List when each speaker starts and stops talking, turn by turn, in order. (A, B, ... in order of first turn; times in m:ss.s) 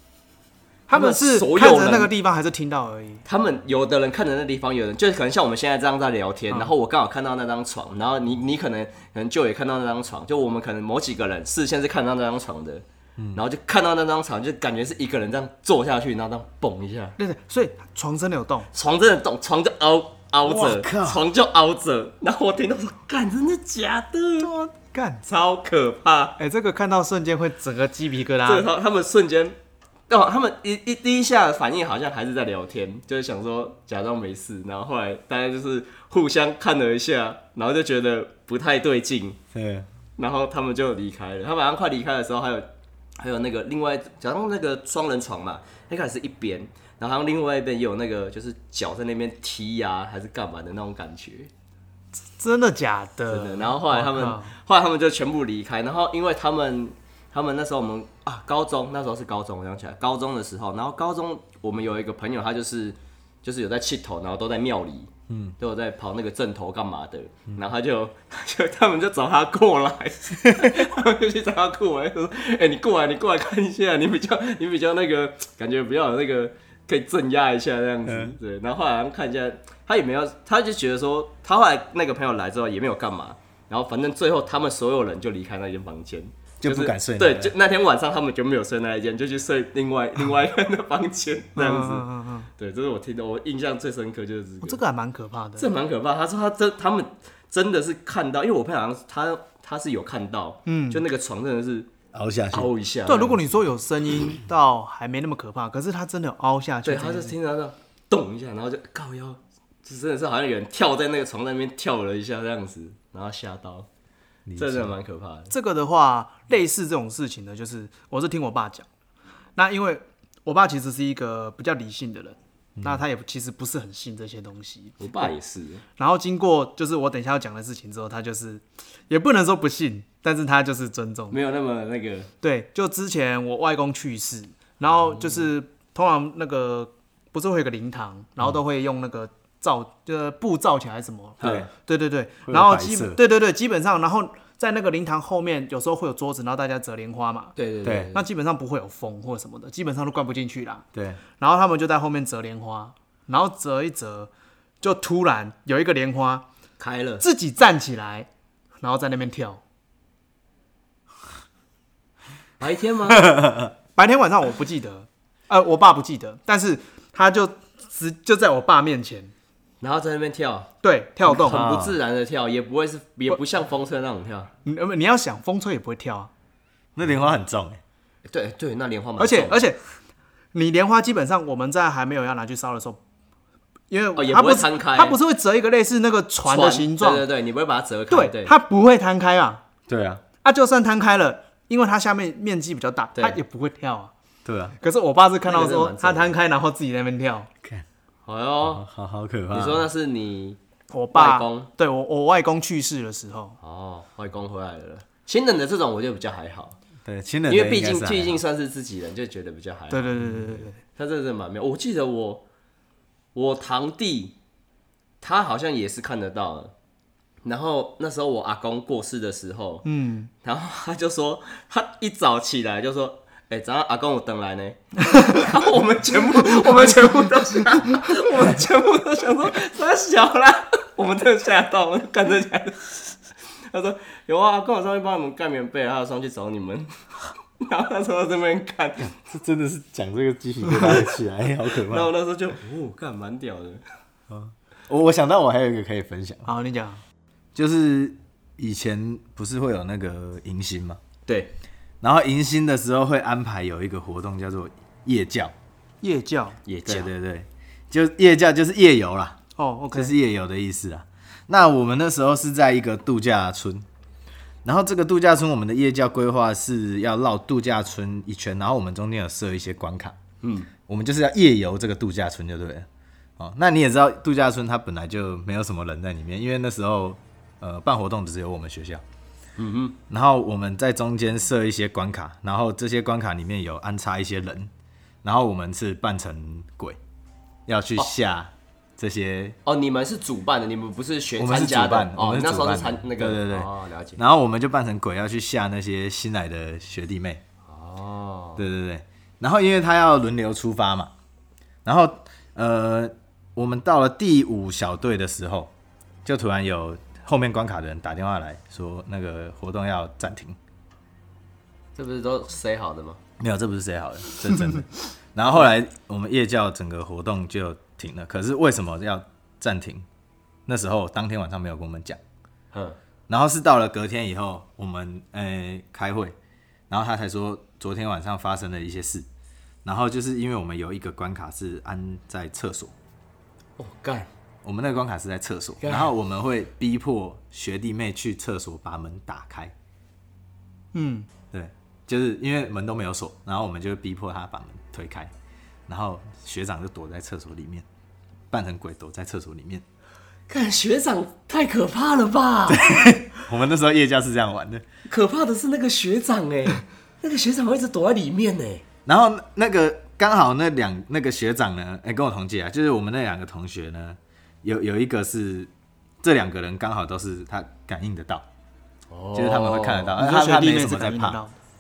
0:00.9-0:03.2 A
0:00.9-0:02.1 B
0:03.2-0:17.2 B
0:17.2-0:18.7 A
0:18.7-0:24.5 B
0:20.4-0:21.2 C
0:24.4-0:25.2 A
0:25.2-0:26.4 B
0:26.4-0:28.7 A
0:28.4-0:29.6 B
0:30.1-0:39.4 B
0:39.5-0:39.9 C
0:40.2-0:51.5 B
0:52.4-0:54.5 A
0:53.3-1:34.8 B
1:05.3-1:05.6 C
1:10.4-1:10.7 C
1:18.0-1:18.3 C
1:26.6-1:27.5 C
1:31.6-1:32.5 A
1:34.6-1:35.7 A
1:35.6-1:41.9 B
1:40.6-1:41.0 A
1:42.1-1:42.7 C
1:42.5-1:43.4 B
1:43.0-1:47.4 A
1:46.8-1:53.9 B
1:54.5-1:54.9 C
1:54.6-1:55.5 B
1:55.5-1:58.8 A
1:59.6-2:05.3 A
2:02.8-2:03.0 C
2:05.0-2:05.8 B
2:06.0-2:11.4 A
2:11.3-2:12.3 B
2:12.4-2:27.6 A
2:14.9-2:15.4 B
2:21.4-2:21.7 B
2:21.4-2:21.7 C
2:22.5-2:23.2 C
2:27.6-2:28.2 B
2:27.8-2:28.1 C
2:28.1-2:30.8 A
2:30.9-2:31.2 C
2:31.4-2:36.4 A
2:36.8-2:37.2 B
2:37.2-2:38.3 A
2:38.8-2:39.6 A
2:42.6-2:43.4 B
2:44.0-2:49.3 A
2:49.8-2:50.7 B
2:50.8-2:51.8 A
2:51.2-2:51.9 C
2:51.3-2:54.5 B
2:54.6-2:56.3 A
2:57.0-2:57.8 C
2:58.2-2:59.6 B
2:59.2-2:59.8 A
3:00.5-3:03.0 A
3:03.9-3:07.3 A
3:04.2-3:05.2 B
3:06.4-3:08.5 B
3:08.1-3:09.6 A
3:09.9-3:10.2 C
3:10.4-3:14.1 A
3:14.4-3:14.8 C
3:14.8-3:17.5 A
3:15.4-3:16.3 B
3:18.2-3:18.8 B
3:18.6-3:19.9 C
3:19.5-3:20.6 B
3:20.9-3:23.6 A
3:21.1-3:21.7 B
3:23.6-3:26.8 B
3:27.0-3:28.4 C
3:27.5-3:32.4 B
3:29.9-3:30.8 A
3:33.3-3:34.4 B
3:35.2-3:36.7 B
3:37.4-3:39.8 B
3:39.8-3:40.3 A
3:40.4-3:57.0 B
3:57.6-3:59.1 B
3:59.1-4:02.1 C
4:01.9-4:03.8 B
4:04.3-4:06.5 C
4:06.4-4:07.0 A
4:07.5-4:11.0 C
4:11.2-4:11.5 B
4:12.0-4:15.5 C
4:16.0-4:16.6 A
4:16.6-4:17.1 B
4:16.8-4:19.4 C
4:19.6-4:20.2 A
4:19.9-4:23.9 C
4:24.6-4:30.2 C
4:30.4-4:30.7 B
4:30.8-4:39.0 C
4:39.6-4:40.0 B
4:40.1-4:44.7 C
4:45.2-4:47.0 C
4:47.7-4:49.6 C
4:49.6-4:54.2 B
4:51.4-4:57.4 C
4:57.6-4:58.6 B
4:58.6-5:01.1 C
5:01.8-5:05.7 C
5:06.2-5:10.6 C
5:12.0-5:13.2 B
5:13.4-5:20.1 C
5:20.7-5:22.2 C
5:22.7-5:23.0 B
5:23.3-5:26.4 C
5:26.9-5:29.3 C
5:29.8-5:32.9 C
5:33.8-5:34.3 B
5:34.6-5:39.7 C
5:35.8-5:36.1 B
5:40.9-5:41.3 A
5:41.5-5:45.3 C
5:45.9-5:47.8 C
5:48.5-5:49.8 C
5:50.5-5:53.0 B
5:52.7-5:54.8 C
5:55.1-5:58.8 B
5:59.0-6:08.4 C
6:09.1-6:10.1 B
6:09.3-6:11.4 C
6:10.2-6:11.6 A